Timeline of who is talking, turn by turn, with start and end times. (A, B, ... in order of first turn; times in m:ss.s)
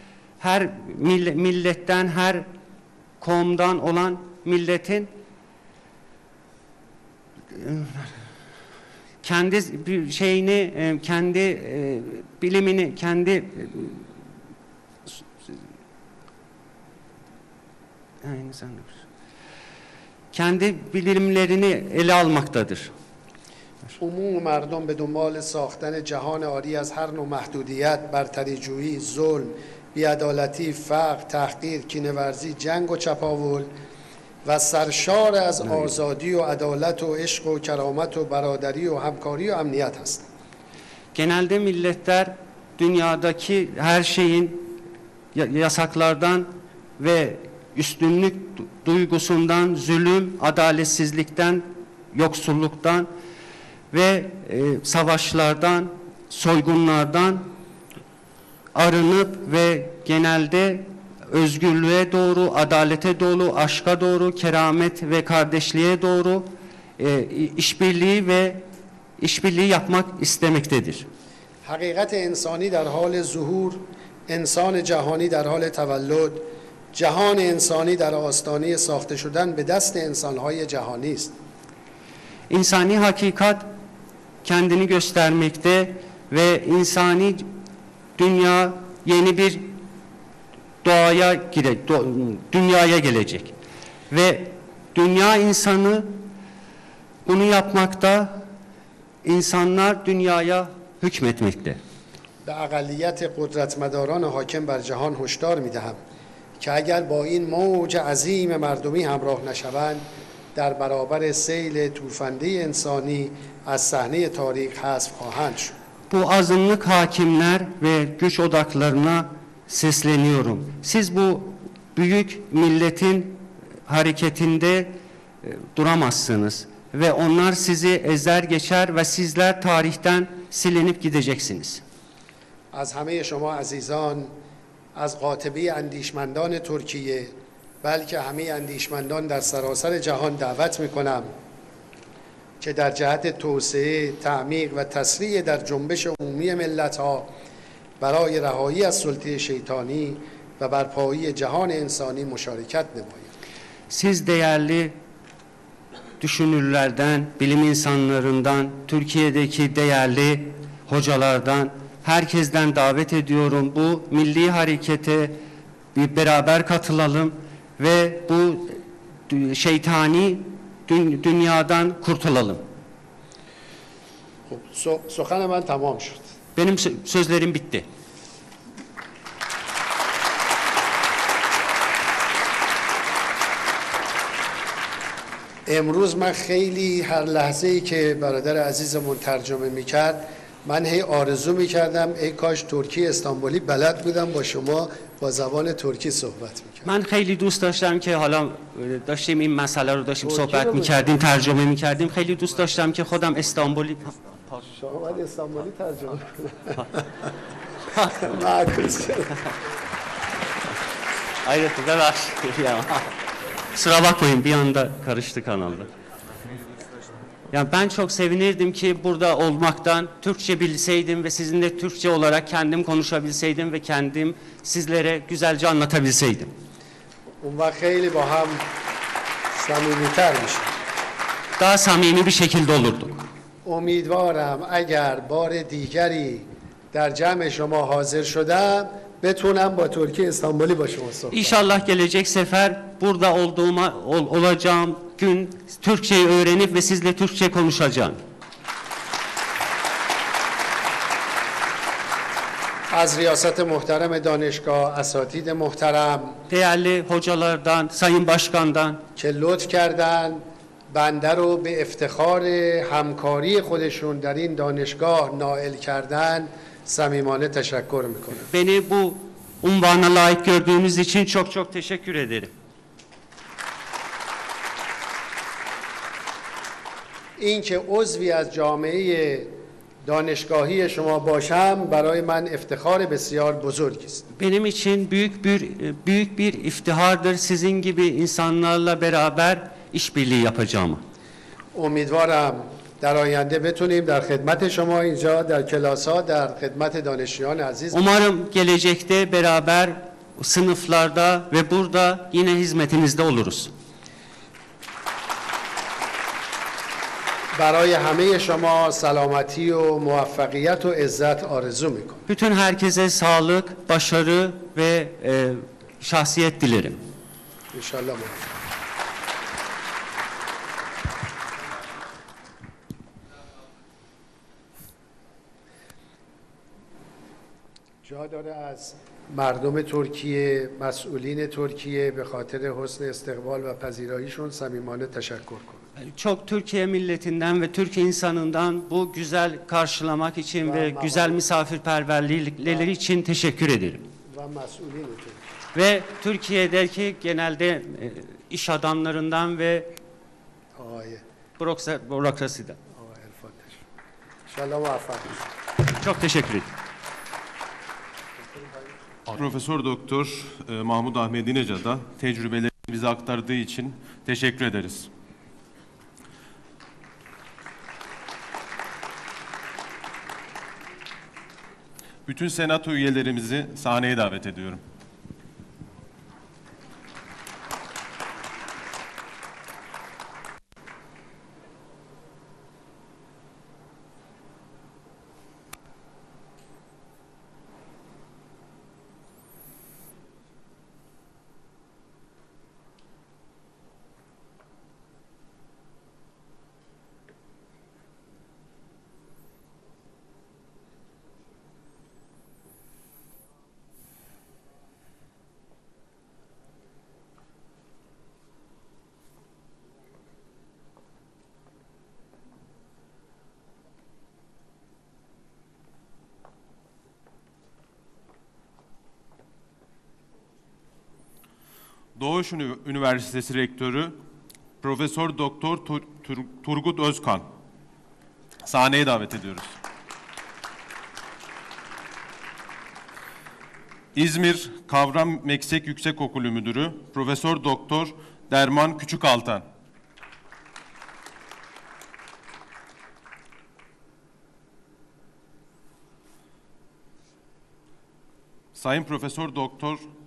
0:00.4-0:02.5 A
0:03.2-0:05.1 A
0:07.5-0:08.2 A
0:09.2-0:14.0 A
0:18.2-0:19.0 A
0:20.3-0:22.9 A
0:24.0-0:33.7 B
0:34.4-0:40.3 B
0:41.1-0:44.8 A
0:45.4-0:53.1 A
0:53.9-0:57.5 A
0:58.7-1:08.6 A
1:09.2-1:11.1 A
1:11.6-1:21.3 B
1:22.5-1:23.7 A
1:24.4-1:27.5 A
1:28.2-1:29.8 A
1:30.8-1:33.5 A
1:34.1-1:36.3 A
1:37.3-1:38.4 A
1:39.2-1:41.8 A
1:42.4-1:46.0 B
1:46.6-1:55.8 B
1:56.1-2:11.8 A
2:12.7-2:14.3 B
2:15.0-2:21.3 B
2:22.6-2:27.3 B
2:28.0-2:33.3 B
2:33.9-2:35.0 A
2:36.2-2:45.4 A
2:46.0-2:48.8 A
2:49.3-2:52.6 A
2:54.5-2:56.3 B
2:56.6-2:57.9 A
3:05.7-3:16.9 B
3:16.8-3:24.2 A
3:20.2-3:21.0 B
3:24.7-3:27.0 B
3:28.2-3:29.4 B
3:31.4-3:33.1 A
3:33.7-3:35.9 A
3:37.5-3:46.5 A
3:47.4-3:48.7 B
3:49.5-3:50.7 B
3:51.6-3:53.2 A
3:53.6-4:01.6 B
4:01.3-4:08.2 A
4:12.9-4:16.4 B
4:16.5-4:19.0 A
4:19.2-4:28.5 B
4:28.5-4:32.5 A
4:37.4-4:44.2 B
4:44.3-4:51.0 A
4:51.7-4:58.1 B
4:57.9-5:03.7 A
5:07.5-5:12.3 B
5:12.3-5:17.0 A
5:17.7-5:18.5 B
5:28.0-5:35.8 B
5:36.0-5:44.1 A
5:40.6-5:41.4 B
5:44.3-5:45.5 B
5:45.8-5:49.9 A
5:50.8-5:51.2 B
5:51.6-5:52.8 A
5:52.9-5:53.8 B
5:54.5-5:55.5 B
5:55.9-5:56.7 A
5:59.3-6:05.1 C
6:12.3-6:14.8 C
7:02.2-7:04.2 C
7:04.8-7:07.5 C
7:08.7-7:09.8 C
7:14.2-7:19.6 C
7:28.8-7:30.0 C